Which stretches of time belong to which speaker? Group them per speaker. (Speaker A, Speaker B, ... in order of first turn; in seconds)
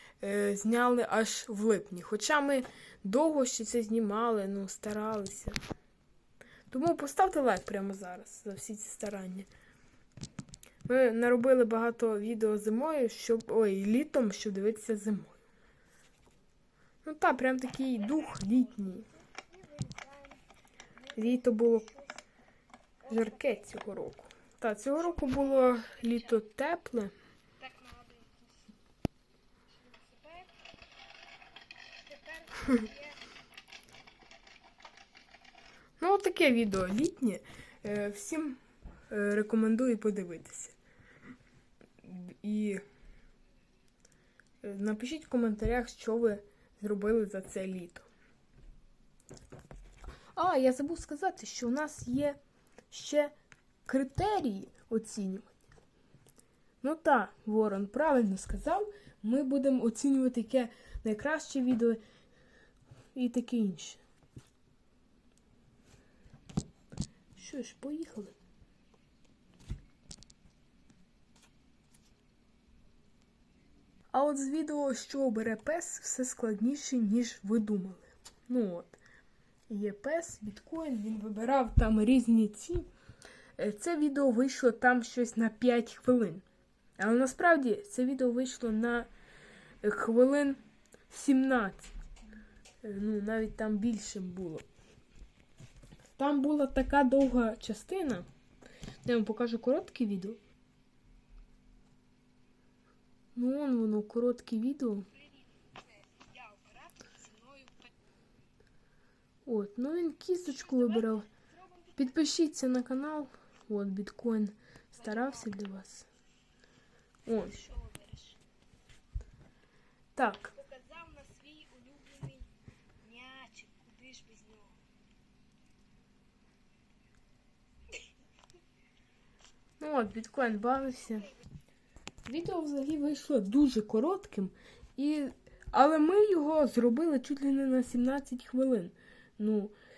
Speaker A: 0.2-5.6, 6.7-9.5, 10.9-15.4, 17.0-19.1, 21.1-21.9, 23.1-27.1, 36.0-40.8, 42.0-42.8, 44.6-48.1, 50.4-52.4, 52.9-53.3, 53.9-55.5, 56.8-62.0, 63.1-64.0, 67.4-68.4, 74.1-79.0, 79.7-82.9, 83.6-86.4, 87.0-89.1, 89.8-91.9, 92.8-94.6, 96.2-98.2, 99.0-100.4, 103.3-105.1, 109.5-111.3, 112.0-116.0, 117.2-117.6, 120.2-120.5, 129.8-131.3, 132.2-139.7
Speaker B: 17.9-20.4, 20.9-22.2, 23.0-23.7, 24.9-26.4, 27.6-28.7, 29.7-30.6, 32.0-33.3, 105.1-107.9, 110.4-112.2, 114.9-115.6, 117.4-118.4, 120.5-124.8